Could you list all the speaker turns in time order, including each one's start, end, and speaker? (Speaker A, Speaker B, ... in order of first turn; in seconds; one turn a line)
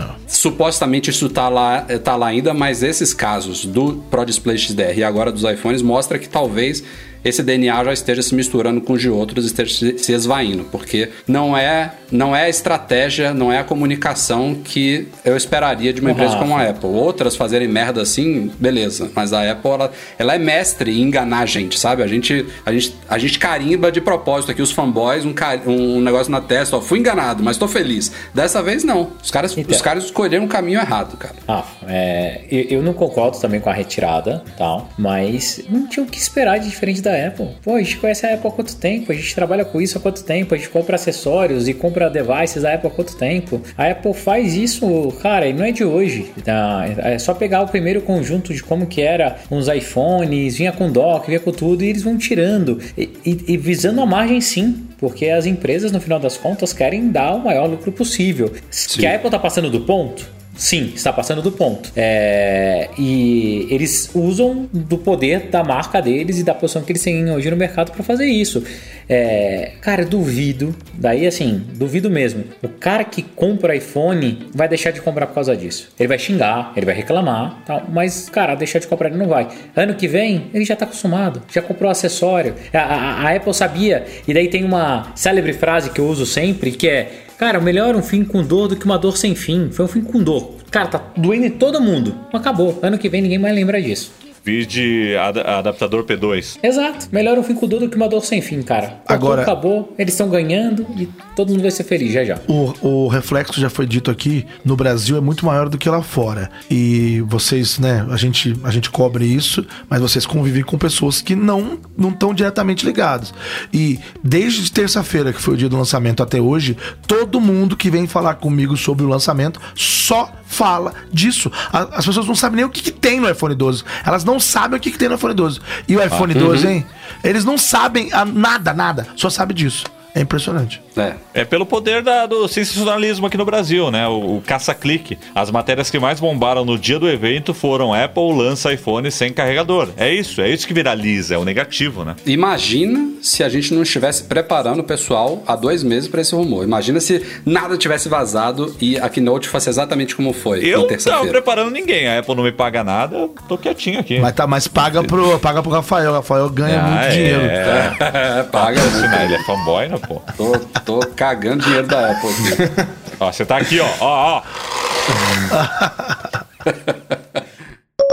Speaker A: 0.3-31.4
Speaker B: 16.1-16.6
Speaker B: 29.6-29.8
Speaker B: 31.5-94.1
Speaker C: 94.4-96.6
Speaker B: 96.6-102.5
Speaker D: 99.1-99.5
Speaker D: 102.5-130.8
Speaker A: 126.3-126.7
Speaker C: 131.3-142.2
Speaker A: 142.3-151.4
Speaker C: 150.6-154.3
Speaker D: 154.2-157.6
Speaker C: 156.6-160.3
Speaker A: 157.6-159.4
Speaker A: 160.4-162.7
Speaker C: 163.2-164.5
Speaker C: 165.1-165.6
Speaker D: 165.5-166.0
Speaker A: 166.7-166.9